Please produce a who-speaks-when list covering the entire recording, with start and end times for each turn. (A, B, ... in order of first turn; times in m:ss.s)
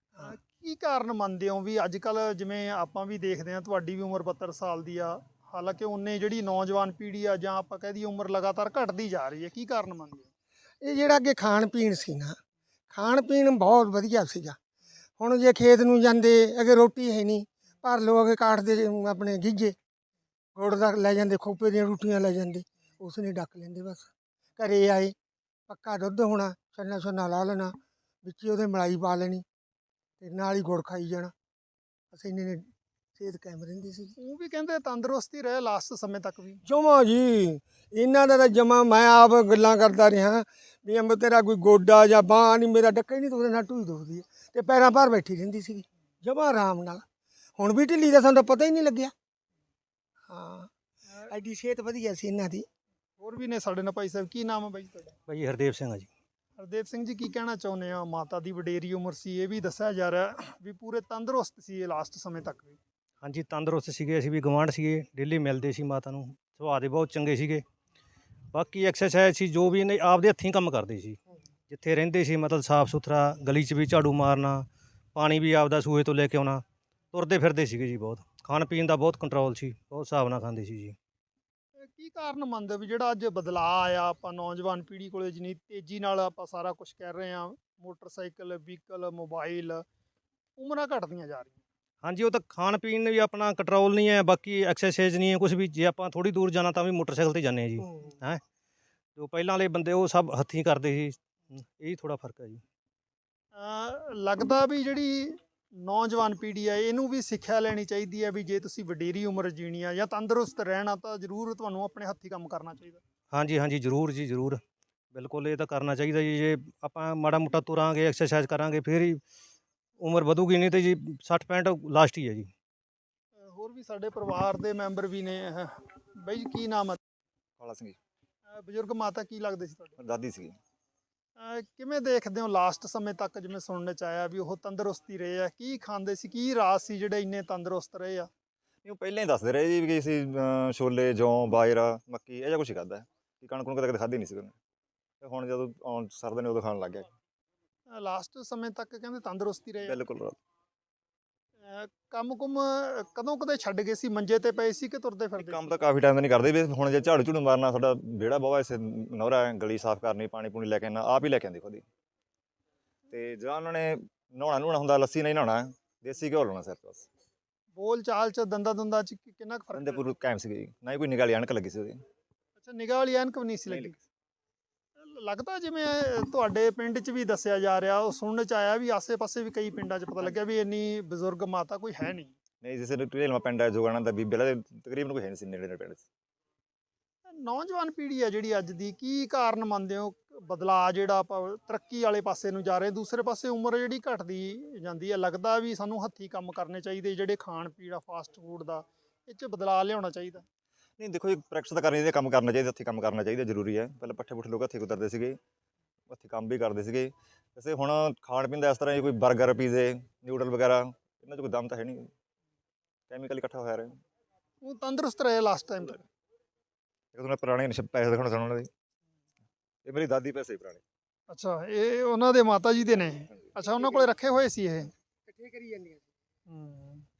0:00.2-0:10.3 A
0:10.8-0:12.4 B
0:12.9-0:14.6 B
0:15.2-0:19.8 B
0:20.6-0:25.1 B
0:25.7-0:29.4 B
0:30.2-0:31.3 B
0:32.1-0:32.7 B
0:33.2-0:34.1 B
0:34.2-0:36.6 A
0:36.6-0:47.0 B
0:47.6-0:49.1 B
0:50.3-0:50.7 B
0:51.2-0:52.6 B
0:53.2-0:55.2 A
0:55.3-0:56.1 C
0:56.6-1:02.8 A
1:03.2-1:07.6 C
1:08.5-1:11.2 C
1:11.7-1:21.0 C
1:21.8-1:29.8 A
1:30.6-1:31.6 A
1:32.0-1:38.4 C
1:39.2-1:42.6 C
1:43.5-1:53.0 A
1:53.3-1:54.6 C
1:55.1-1:59.2 C
2:00.0-2:02.5 C
2:03.4-2:07.0 A
2:07.6-2:08.0 D
2:08.5-2:10.0 A
2:10.0-2:10.6 D
2:11.4-2:18.3 A
2:18.8-2:24.6 D
2:25.2-2:27.1 D
2:27.9-2:30.0 A
2:29.8-2:30.4 D
2:31.6-2:35.8 A
2:35.4-2:41.8 D
2:43.1-2:47.1 D
2:47.7-2:50.1 A
2:49.7-2:52.0 D
2:52.6-2:54.0 A
2:53.7-2:54.0 D
2:55.0-3:02.3 A
3:02.6-3:06.0 D
3:07.3-3:20.4 A
3:21.0-3:25.4 D
3:26.1-3:32.1 D
3:33.1-3:34.0 D
3:34.6-3:36.0 A
3:37.1-3:38.7 D
3:39.8-3:40.8 D
3:41.3-3:44.9 A
3:45.2-3:46.0 B
3:46.5-3:47.0 A